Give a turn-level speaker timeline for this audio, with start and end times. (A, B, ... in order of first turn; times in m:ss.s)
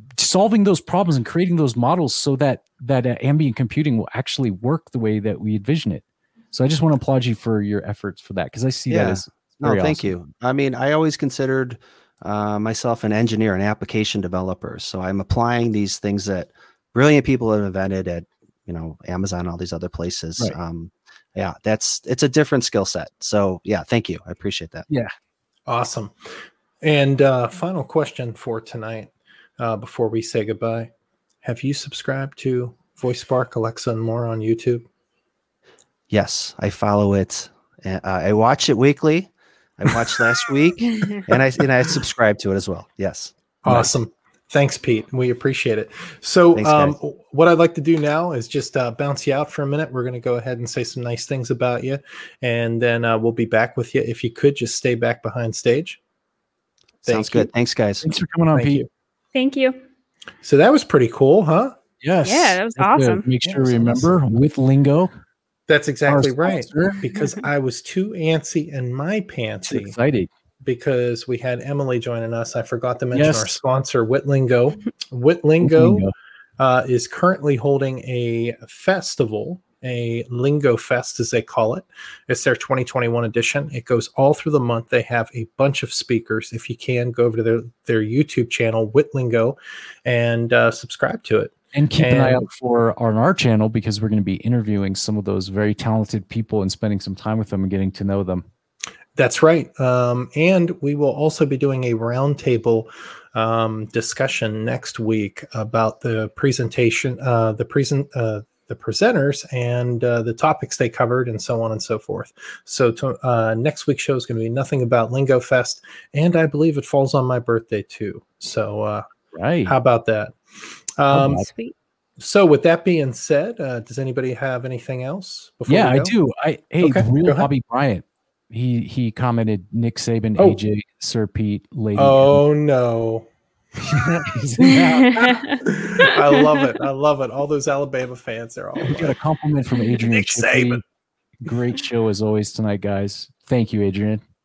0:00.2-0:10.1 A
0:08.9-0:24.9 B
0:25.7-0:26.1 C
0:26.8-0:30.9 C
0:31.4-0:34.8 C
0:36.1-0:43.8 B
0:43.6-0:56.0 C
0:46.6-0:47.0 B
0:57.0-0:58.0 B
0:57.1-0:57.5 C
0:58.0-0:58.8 A
0:58.5-0:58.9 C
0:59.3-0:59.8 D
1:00.4-1:01.8 C
1:02.0-1:05.1 A
1:02.2-1:03.3 D
1:03.4-1:04.1 C
1:05.7-1:10.0 C
1:06.1-1:07.0 A
1:09.6-1:10.3 A
1:10.6-1:16.1 C
1:13.1-1:13.6 A
1:15.6-1:16.1 A
1:16.6-1:32.5 C
1:31.7-1:38.4 A
1:39.2-1:59.1 C
1:59.3-1:59.8 A
1:59.7-2:00.4 C
2:01.0-2:01.4 C
2:01.1-2:01.5 A
2:01.5-2:01.7 D
2:02.2-2:06.1 C
2:05.7-2:12.4 A
2:06.8-2:07.5 C
2:12.0-2:13.3 C
2:13.8-2:15.3 A
2:15.0-2:16.7 D
2:15.2-2:19.2 C
2:18.8-2:20.8 A
2:20.0-2:20.8 C
2:21.4-2:24.2 A